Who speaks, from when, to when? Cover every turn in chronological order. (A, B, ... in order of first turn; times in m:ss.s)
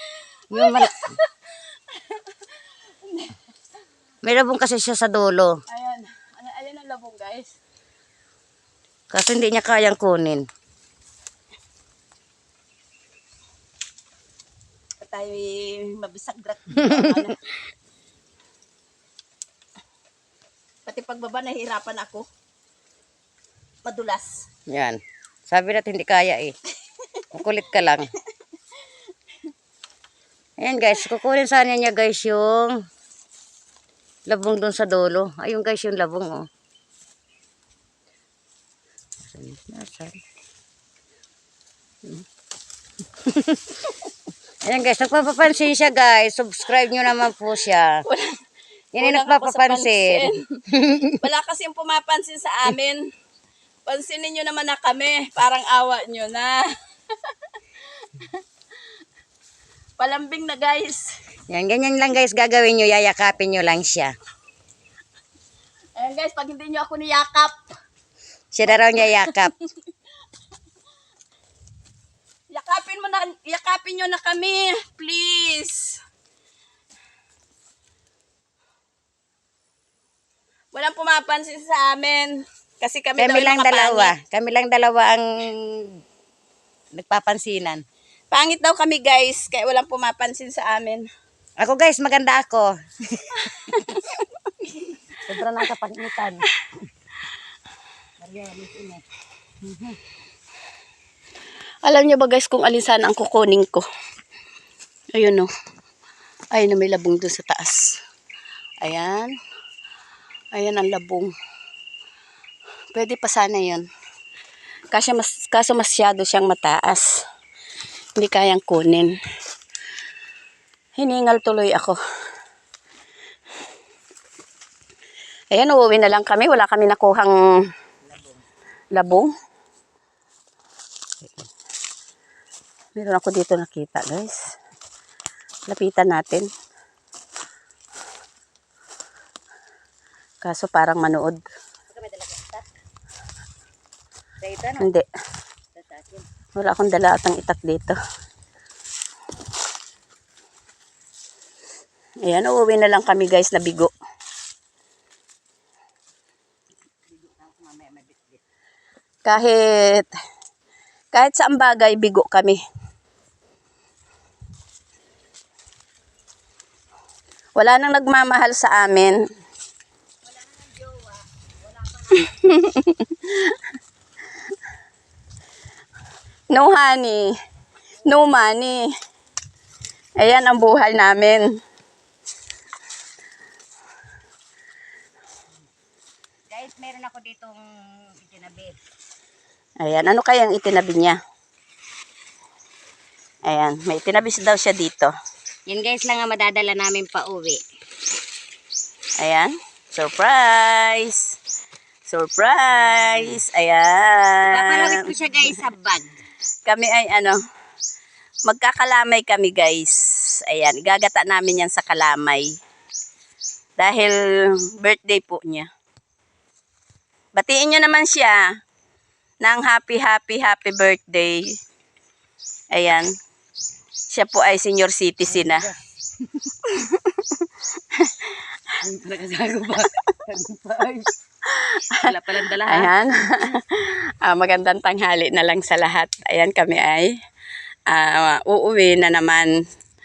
0:00.5-0:00.9 A
0:00.5-0:01.2 B
0:04.2-0:05.5 A
0:05.7-0:07.6 B
0:09.1-0:10.4 A
0:15.0-0:17.4 B
0:20.9-0:22.3 B
0:23.8-0:24.4 B
0:24.7-0:26.5 A
0:27.3-0:28.1 A
0:30.6-0:32.8 A
0:34.3-0:36.5 A
0:39.3-0:40.2 A
0:43.3-0:43.7 A
0:44.6-0:48.0 A
0:48.9-0:51.2 A
0:49.0-0:50.4 B
0:51.2-0:53.0 B
0:53.9-0:56.6 B
1:00.0-1:01.1 B
1:01.5-1:04.1 A
1:06.0-1:07.5 B
1:08.5-1:09.5 A
1:08.7-1:09.4 B
1:12.5-1:16.0 B
1:20.7-1:24.1 B
1:23.2-1:25.9 A
1:26.9-1:27.8 A
1:28.3-1:31.1 B
1:31.6-1:32.7 A
1:33.6-1:34.0 B
1:35.2-1:36.4 A
1:38.2-1:39.0 A
1:41.8-1:43.8 B
1:45.1-1:45.5 B
1:46.5-1:47.9 B
1:48.8-1:49.3 B
1:50.5-1:51.3 B
1:52.9-1:53.8 B
1:54.9-1:57.0 B
1:58.2-1:59.1 B
2:01.0-2:02.0 B
2:05.5-2:07.3 B
2:08.9-2:09.3 B
2:13.0-2:14.3 B
2:15.7-2:16.5 B
2:20.4-2:21.4 B
2:21.9-2:22.7 A
2:24.4-2:24.9 A
2:24.8-2:25.1 B
2:25.8-2:26.2 A
2:26.6-2:28.0 B
2:32.2-2:33.9 B
2:37.1-2:38.4 A
2:39.2-2:40.1 B
2:41.1-2:42.6 B
2:47.6-2:49.2 B
2:50.3-2:52.2 A
2:52.1-2:53.6 B
2:56.5-2:57.3 B
2:58.0-2:58.9 B
3:00.2-3:01.4 B
3:06.5-3:08.8 A
3:09.8-3:11.2 B
3:13.5-3:15.1 B
3:15.7-3:17.6 A
3:19.2-3:21.3 B
3:22.1-3:25.1 B
3:22.7-3:23.4 A
3:24.5-3:26.2 A
3:26.7-3:27.4 B
3:28.5-3:32.6 B
3:33.8-3:35.7 B
3:37.3-3:38.4 B
3:39.4-3:41.6 B
3:42.7-3:43.1 B
3:44.1-3:45.7 B
3:45.3-3:45.8 A
3:46.7-3:47.4 B
3:48.8-3:51.1 A
3:51.5-3:51.9 B
3:51.9-3:52.9 A
3:52.6-3:57.1 B
3:57.9-3:59.5 B